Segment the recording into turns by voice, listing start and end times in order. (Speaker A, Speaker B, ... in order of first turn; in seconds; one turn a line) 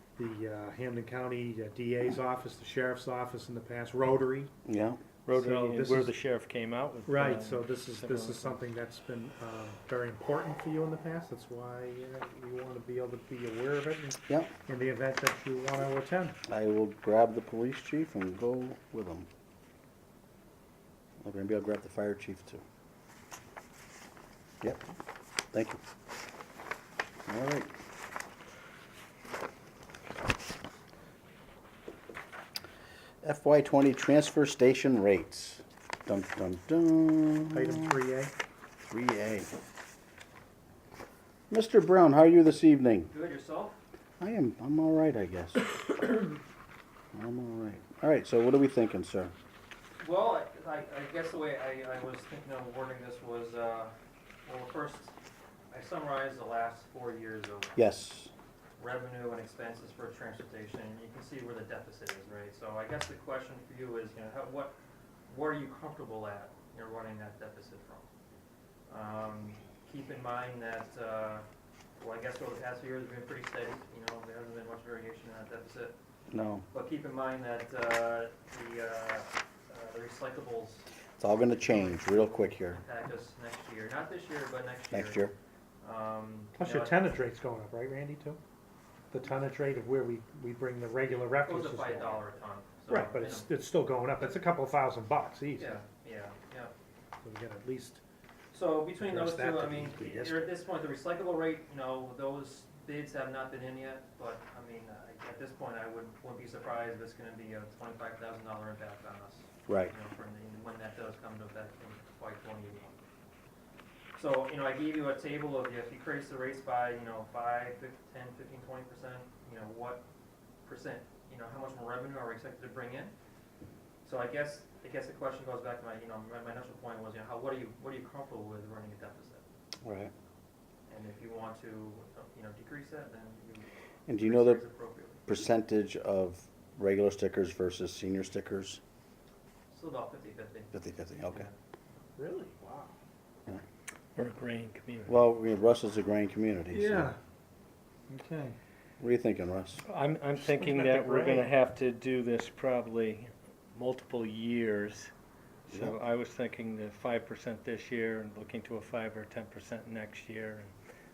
Speaker A: 0.2-4.5
Speaker B: 4.7-5.0
Speaker C: 5.3-8.6
Speaker A: 5.3-6.2
Speaker A: 7.1-16.4
Speaker B: 16.5-19.3
Speaker B: 21.2-22.6
Speaker B: 25.5-25.8
Speaker B: 27.3-27.7
Speaker B: 33.2-38.0
Speaker A: 37.5-38.3
Speaker B: 38.8-39.5
Speaker B: 41.5-43.1
Speaker D: 43.1-43.8
Speaker B: 44.2-45.6
Speaker B: 47.1-49.3
Speaker D: 50.0-53.9
Speaker D: 54.5-55.1
Speaker D: 55.7-57.8
Speaker B: 57.8-58.3
Speaker D: 58.8-64.7
Speaker D: 65.3-68.1
Speaker D: 68.9-71.5
Speaker D: 72.0-76.0
Speaker B: 76.3-76.7
Speaker D: 76.7-80.9
Speaker B: 81.2-82.8
Speaker D: 81.7-85.3
Speaker B: 84.9-85.3
Speaker D: 85.8-87.0
Speaker A: 86.5-88.4
Speaker A: 89.1-92.2
Speaker D: 91.4-93.5
Speaker A: 92.9-95.8
Speaker D: 95.6-96.7
Speaker A: 97.2-98.0
Speaker D: 98.5-113.0
Speaker A: 99.1-100.4
Speaker B: 109.7-109.9
Speaker D: 114.2-120.0
Speaker D: 120.7-123.1
Speaker D: 124.0-129.4
Speaker B: 129.8-130.1
Speaker D: 130.9-135.2
Speaker B: 134.1-134.6
Speaker B: 135.3-138.8
Speaker D: 139.7-140.8
Speaker B: 140.7-141.5
Speaker D: 141.3-141.5
Speaker A: 142.2-142.9
Speaker C: 144.2-145.2
Speaker B: 145.1-147.1
Speaker A: 146.7-147.2
Speaker A: 148.1-148.6
Speaker B: 149.0-149.8
Speaker C: 149.9-155.1
Speaker A: 150.4-151.5
Speaker C: 155.7-160.7